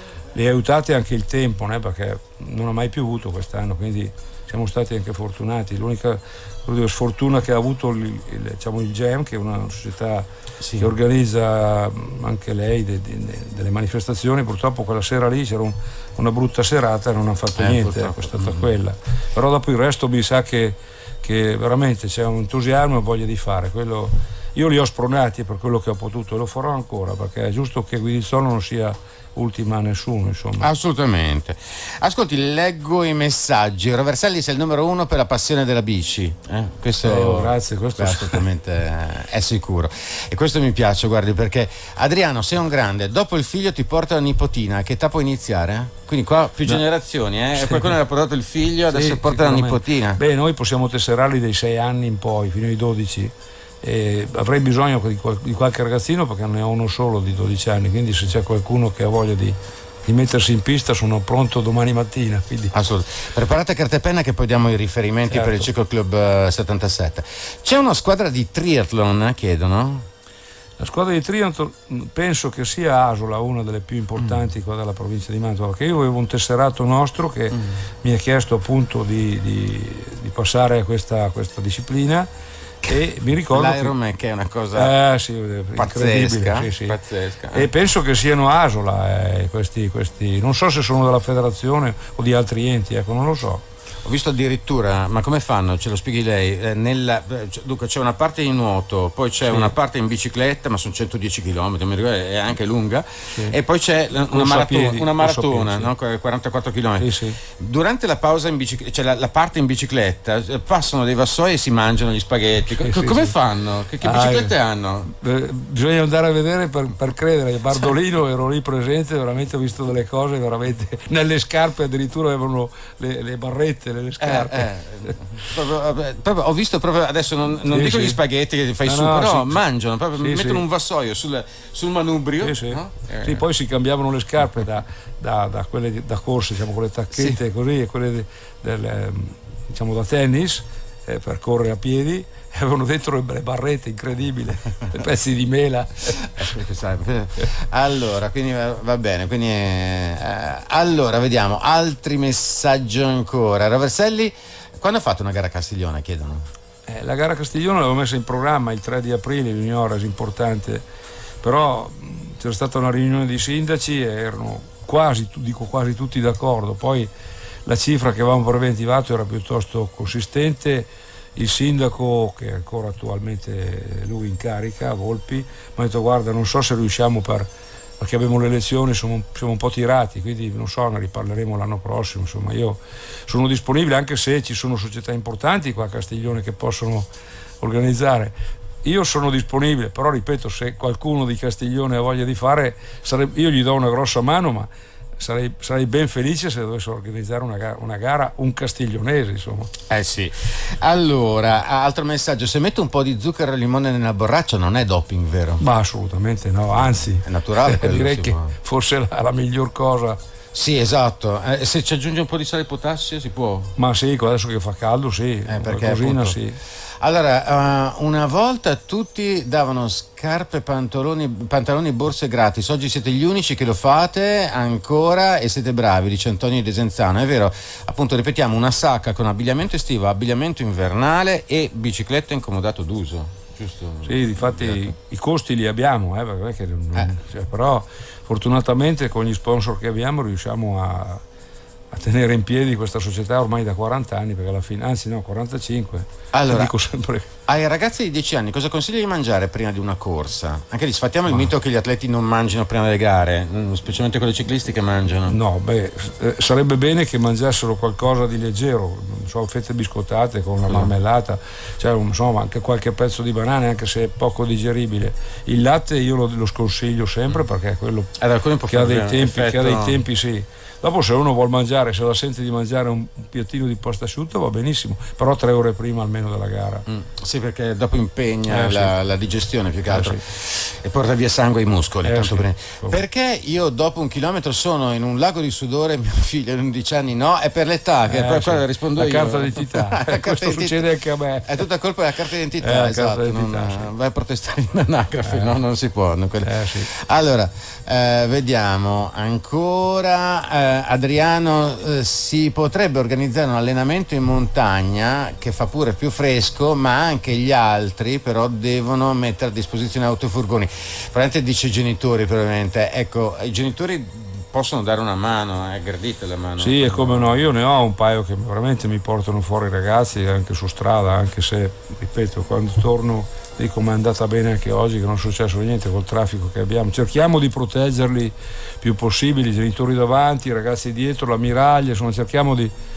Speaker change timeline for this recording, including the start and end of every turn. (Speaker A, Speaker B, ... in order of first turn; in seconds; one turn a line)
Speaker A: 0.3-10.3
Speaker B: 10.6-10.9
Speaker A: 10.8-30.7
Speaker B: 17.6-18.7
Speaker B: 30.6-50.2
Speaker A: 37.0-38.4
Speaker A: 47.5-48.0
Speaker A: 48.9-62.7
Speaker B: 62.7-70.1
Speaker A: 65.3-65.7
Speaker A: 70.8-82.3
Speaker B: 77.5-77.8
Speaker A: 82.8-83.9
Speaker B: 83.5-84.9
Speaker A: 84.7-87.0
Speaker B: 85.7-87.7
Speaker A: 87.5-93.6
Speaker B: 94.0-115.1
Speaker A: 99.5-99.7
Speaker A: 104.2-105.9
Speaker A: 107.0-107.4
Speaker A: 112.8-113.3
Speaker A: 114.0-114.5
Speaker A: 115.1-125.5
Speaker B: 124.2-133.4
Speaker A: 127.7-128.2
Speaker A: 128.8-129.6
Speaker A: 130.2-130.6
Speaker A: 132.4-146.6
Speaker B: 146.2-156.4
Speaker A: 156.9-160.8
Speaker A: 161.4-167.1
Speaker A: 167.6-187.1
Speaker A: 187.6-199.7
Speaker B: 199.9-205.6
Speaker A: 205.6-210.2
Speaker B: 207.2-208.5
Speaker B: 210.5-213.7
Speaker A: 213.8-216.6
Speaker B: 215.5-216.4
Speaker B: 217.0-234.9
Speaker A: 234.0-241.2
Speaker A: 241.9-247.3
Speaker B: 246.3-246.7
Speaker B: 247.5-255.3
Speaker A: 255.3-268.1
Speaker B: 268.2-270.0
Speaker A: 268.7-276.8
Speaker B: 276.9-290.8
Speaker A: 278.5-278.9
Speaker A: 279.9-280.2
Speaker A: 282.0-283.0
Speaker A: 288.1-291.6
Speaker B: 291.4-317.4
Speaker A: 292.6-293.9
Speaker A: 295.3-295.6
Speaker A: 296.4-296.9
Speaker A: 316.6-332.7